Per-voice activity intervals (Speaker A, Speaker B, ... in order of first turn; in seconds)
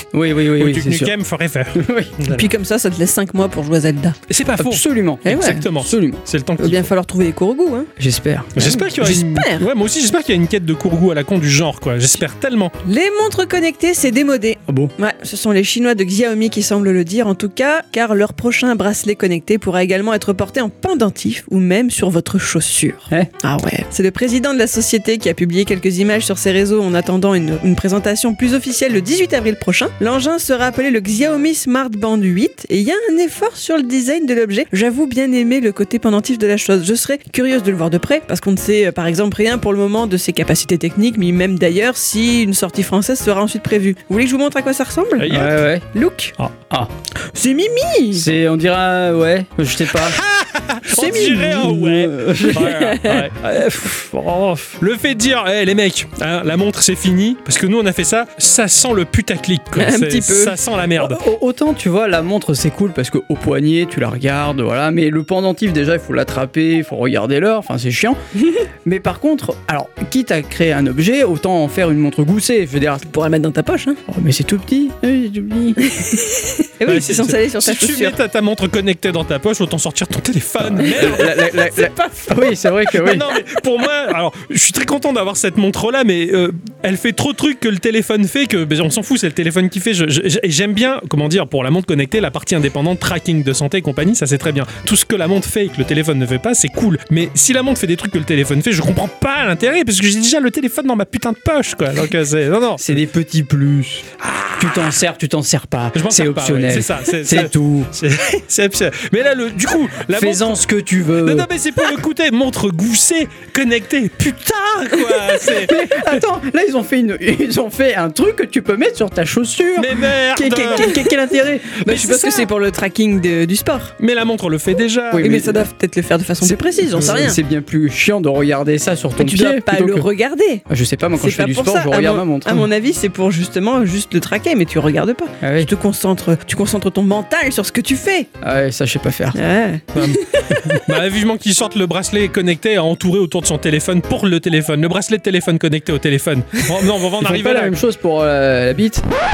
Speaker A: 0.1-1.1, 1.8-2.1, 4.6-6.2, 8.0-8.8, 45.3-45.9, 48.1-50.2, 51.6-52.7, 61.0-68.2, 68.8-73.1, 74.1-75.8, 80.8-83.2, 102.8-104.1, 104.6-107.9, 110.1-111.5, 115.6-122.0, 125.1-125.7, 126.4-130.1, 130.7-132.7, 135.4-135.7, 138.4-139.4, 147.2-149.1
Speaker B: 0.6-2.5, 4.3-6.8, 8.6-12.7, 45.2-45.6, 49.9-61.2, 76.8-81.8, 82.9-103.0, 104.2-105.0, 105.9-110.6, 111.2-116.2, 119.8-121.0, 122.0-122.4, 124.0-125.4, 139.9-147.8
Speaker C: 2.3-4.2, 5.2-5.6, 6.6-7.9, 8.9-9.7, 12.8-45.3, 45.9-46.4, 47.2-48.3, 50.9-51.7, 52.3-53.3, 59.8-60.5, 73.1-74.0, 75.8-78.2, 120.8-121.1, 121.7-123.9, 125.2-127.4, 129.2-130.6, 131.2-138.3, 139.3-140.6